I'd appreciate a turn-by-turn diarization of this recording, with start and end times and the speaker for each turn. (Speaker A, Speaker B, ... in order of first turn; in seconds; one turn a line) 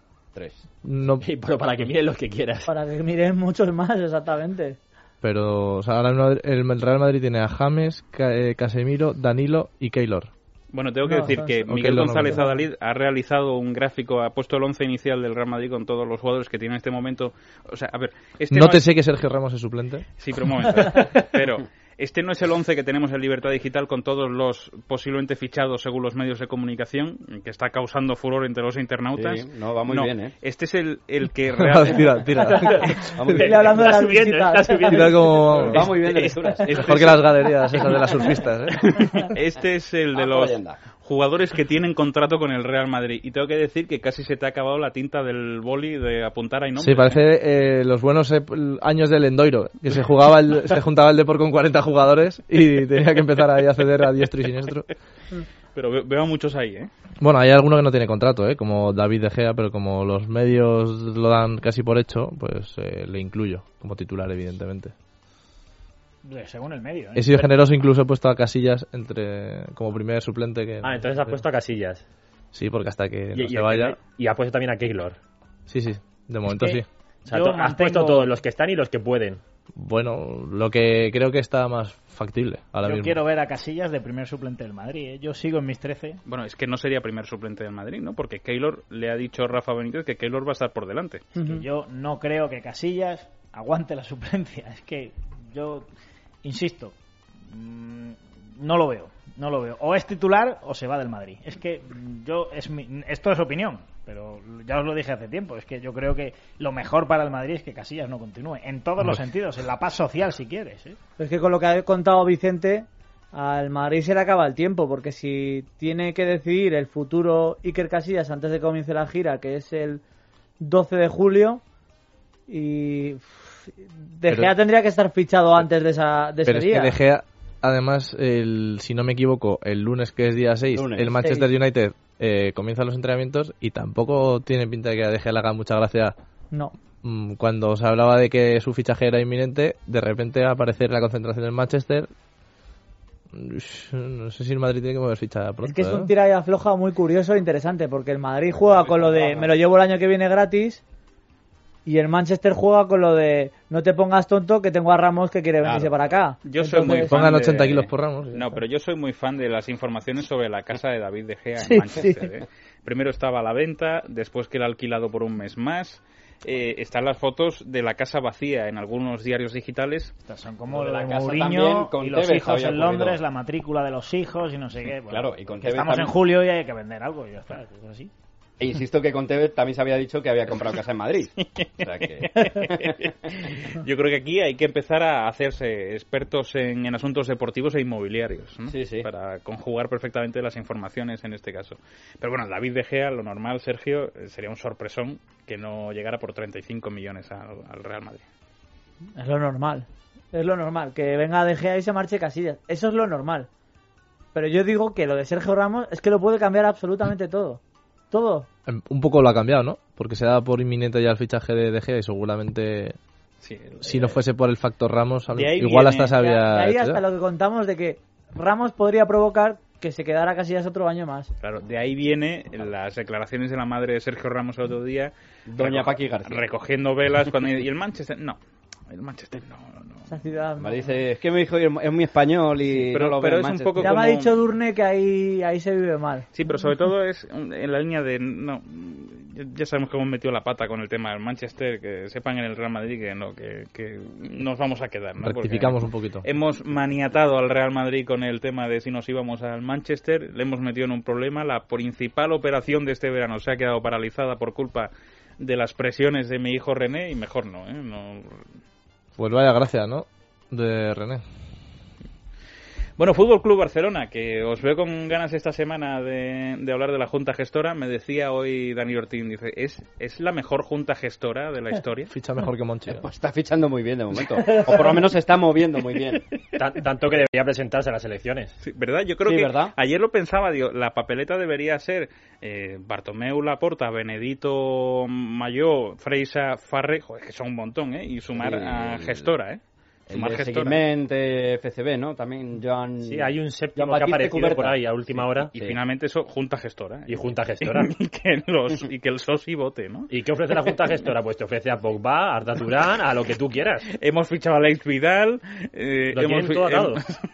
Speaker A: 0.3-0.6
Speaker B: 0.8-1.2
Speaker C: 1.2-2.7
Speaker D: 2.6-4.8
Speaker B: 5.2-10.3
Speaker E: 10.7-18.9
Speaker D: 11.1-11.6
Speaker B: 11.7-12.4
Speaker D: 12.3-12.6
Speaker B: 18.5-20.0
Speaker E: 20.2-32.1
Speaker A: 29.1-30.3
Speaker B: 31.6-33.0
Speaker C: 32.4-35.2
Speaker A: 33.1-33.9
Speaker D: 33.3-35.1
Speaker B: 34.9-35.9
Speaker A: 35.7-36.8
Speaker E: 35.8-37.8
Speaker B: 36.7-38.9
Speaker E: 38.7-47.2
Speaker A: 40.1-40.8
Speaker B: 46.8-54.9
Speaker E: 55.7-56.9
Speaker B: 57.2-64.9
Speaker F: 66.2-67.5
Speaker B: 67.1-71.4
Speaker C: 70.8-72.0
Speaker B: 72.5-74.0
Speaker C: 73.3-75.2
Speaker B: 75.7-76.8
Speaker F: 77.3-78.3
Speaker C: 77.3-79.4
Speaker B: 79.8-83.2
Speaker F: 82.8-86.2
Speaker E: 86.2-91.2
Speaker D: 91.3-91.6
Speaker F: 91.4-95.8
Speaker F: 96.4-96.9
Speaker F: 97.5-111.0
Speaker D: 111.2-120.0
Speaker D: 120.6-121.6
Speaker D: 122.5-123.4
Speaker D: 124.2-127.0
Speaker B: 126.4-136.1
Speaker A: 130.8-131.1
Speaker D: 131.2-131.5
Speaker B: 137.0-142.1
Speaker B: 143.3-146.1
Speaker D: 145.6-150.8
Speaker A: 148.7-149.5
Speaker D: 151.8-157.2
Speaker A: 155.6-155.9
Speaker E: 156.4-170.1
Speaker B: 157.1-158.4
Speaker D: 161.7-162.1
Speaker F: 170.2-178.1
Speaker A: 170.7-173.2
Speaker A: 175.1-176.1
Speaker A: 178.6-182.9
Speaker E: 181.4-198.2
Speaker A: 188.7-189.1
Speaker D: 199.2-203.5
Speaker D: 204.3-207.6
Speaker D: 208.1-208.5
Speaker B: 208.7-212.9
Speaker E: 213.4-214.2
Speaker B: 213.8-217.0
Speaker E: 215.3-216.2
Speaker D: 216.1-221.3
Speaker E: 221.4-230.1
Speaker A: 225.5-226.4
Speaker D: 230.1-231.0
Speaker A: 230.6-233.9
Speaker E: 232.7-234.4
Speaker D: 233.8-236.3
Speaker E: 236.3-258.5
Speaker B: 245.2-246.2
Speaker B: 259.2-261.2
Speaker E: 263.0-272.1
Speaker B: 272.1-273.0
Speaker A: 272.9-276.2
Speaker D: 274.5-275.0
Speaker C: 276.6-278.5
Speaker E: 278.6-290.8
Speaker A: 279.2-279.7
Speaker A: 288.3-289.3
Speaker A: 290.1-295.8
Speaker C: 293.0-295.5
Speaker E: 295.6-300.1
Speaker C: 297.1-297.9
Speaker C: 300.1-303.9
Speaker E: 303.9-307.2
Speaker C: 306.1-307.0